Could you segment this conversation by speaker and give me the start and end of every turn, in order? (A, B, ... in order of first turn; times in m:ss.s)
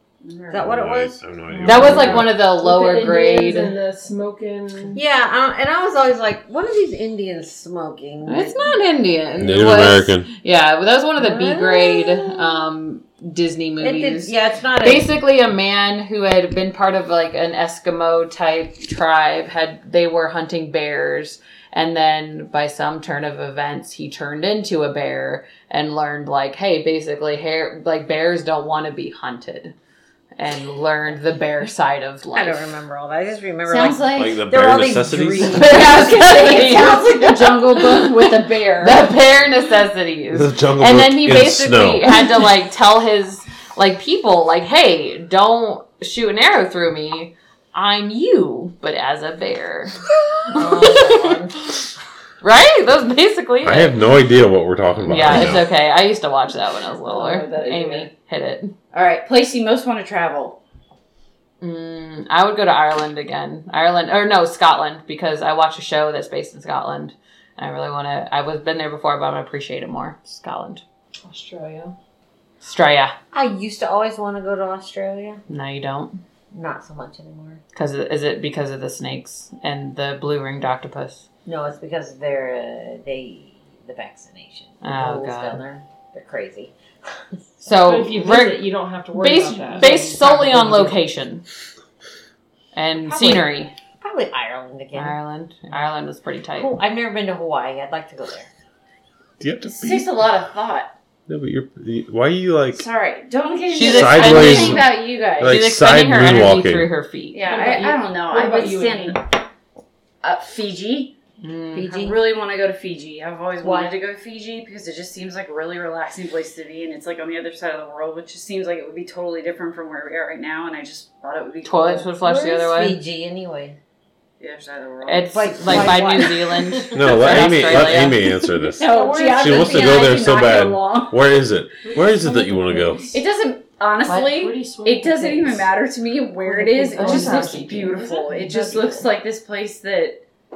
0:00.2-0:00.6 A
0:00.5-0:02.3 B
0:00.6-0:02.3 C
0:01.6-0:03.7 D
0:01.7-0:05.0 E
0:04.9-0:08.8 B
0:08.2-0:29.7 D
0:09.4-0:10.3 C
0:11.2-0:12.7 B
0:13.8-0:15.1 B
0:30.4-0:32.6 D
0:32.3-0:36.1 B
0:33.6-0:34.4 A
0:34.1-0:35.5 C
0:35.4-0:51.4 D
0:35.5-0:39.1 A
0:40.3-0:42.2 C
0:50.5-0:51.5 B
0:52.4-0:53.9 D
0:53.6-0:55.6 C
0:55.0-0:58.7 D
0:57.0-0:58.1 A
0:58.9-1:00.6 A
1:01.6-1:10.8 D
1:11.2-1:11.9 E
1:12.6-1:13.1 D
1:13.3-1:15.4 B
1:15.5-1:16.2 D
1:16.5-1:17.6 B
1:17.7-1:21.2 D
1:21.4-1:26.7 B
1:24.8-1:25.6 D
1:27.6-1:31.4 D
1:27.7-1:31.0 E
1:32.7-1:33.7 D
1:34.0-1:35.2 B
1:34.9-1:36.8 D
1:36.6-1:38.5 B
1:39.4-1:40.1 C
1:39.6-1:40.9 A
1:41.3-1:42.8 C
1:42.7-1:45.6 A
1:43.7-1:47.4 D
1:43.8-1:46.9 C
1:47.3-1:49.3 A
1:47.4-1:49.2 E
1:50.2-1:51.2 A
1:51.4-1:51.9 D
1:51.7-1:52.2 B
1:51.9-2:02.1 A
1:53.6-1:53.9 B
2:01.6-2:03.0 D
2:02.2-2:03.8 B
2:04.4-2:06.1 A
2:05.1-2:08.3 D
2:05.3-2:07.5 B
2:06.9-2:13.1 C
2:08.8-2:11.2 A
2:08.9-2:09.6 E
2:09.5-2:10.2 B
2:11.8-2:13.1 E
2:13.1-2:20.2 A
2:14.1-2:15.7 E
2:16.4-2:19.1 E
2:17.0-2:17.8 D